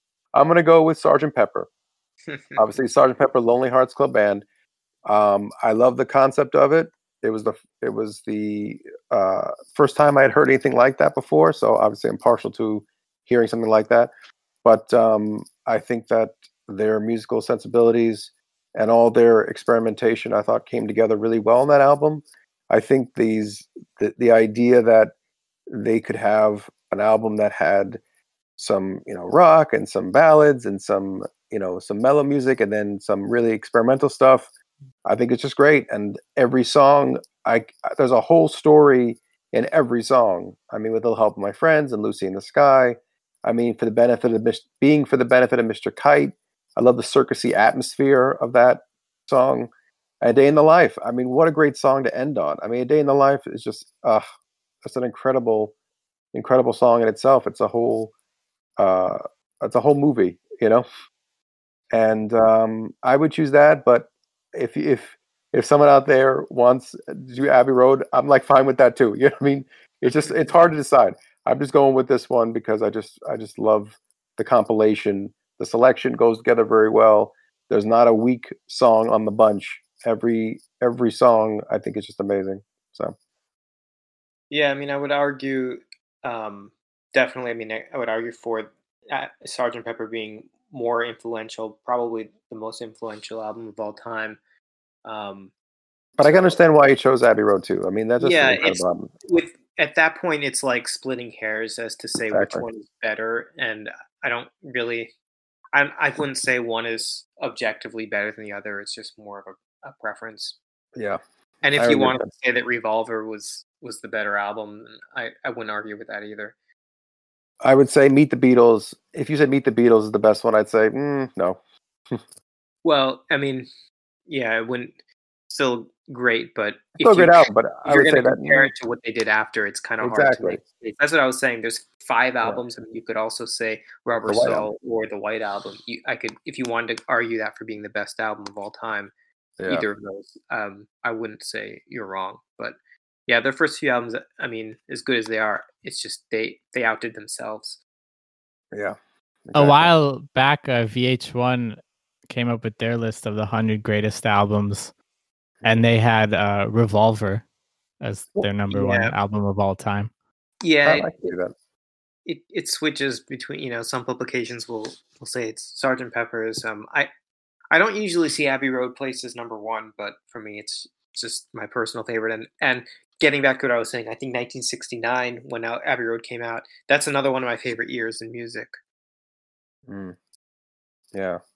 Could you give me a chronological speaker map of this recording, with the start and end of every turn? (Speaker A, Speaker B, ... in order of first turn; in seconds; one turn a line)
Speaker A: 0.3-1.7
Speaker B: 2.3-2.6
Speaker A: 2.6-4.4
Speaker A: 5.0-14.1
Speaker A: 14.6-25.1
Speaker A: 25.7-28.0
Speaker A: 28.6-34.5
Speaker A: 35.0-49.7
Speaker A: 50.2-54.2
Speaker A: 54.8-55.7
Speaker A: 56.3-58.1
Speaker A: 58.8-60.9
Speaker A: 61.9-83.1
Speaker B: 70.1-70.5
Speaker B: 84.5-94.4
Speaker B: 95.0-95.5
Speaker A: 96.2-99.1
Speaker B: 96.2-96.6
Speaker B: 98.2-105.1
Speaker A: 102.3-102.6
Speaker B: 105.7-110.6
Speaker A: 110.9-111.2
Speaker B: 111.6-116.5
Speaker A: 111.8-112.2
Speaker A: 117.6-121.6
Speaker B: 122.8-123.7
Speaker B: 124.3-124.9
Speaker B: 125.5-139.1
Speaker A: 127.0-128.7
Speaker A: 130.0-130.6
Speaker A: 134.2-134.7
Speaker A: 139.6-139.8
Speaker B: 139.7-147.8
Speaker A: 148.7-149.9
Speaker C: 149.5-154.9
Speaker A: 155.6-155.8
Speaker C: 155.6-157.4
Speaker C: 158.0-160.1
Speaker B: 158.7-159.1
Speaker B: 160.6-161.1
Speaker A: 160.8-161.5
Speaker B: 162.2-167.1
Speaker B: 167.7-178.8
Speaker A: 179.9-180.2
Speaker A: 181.1-181.4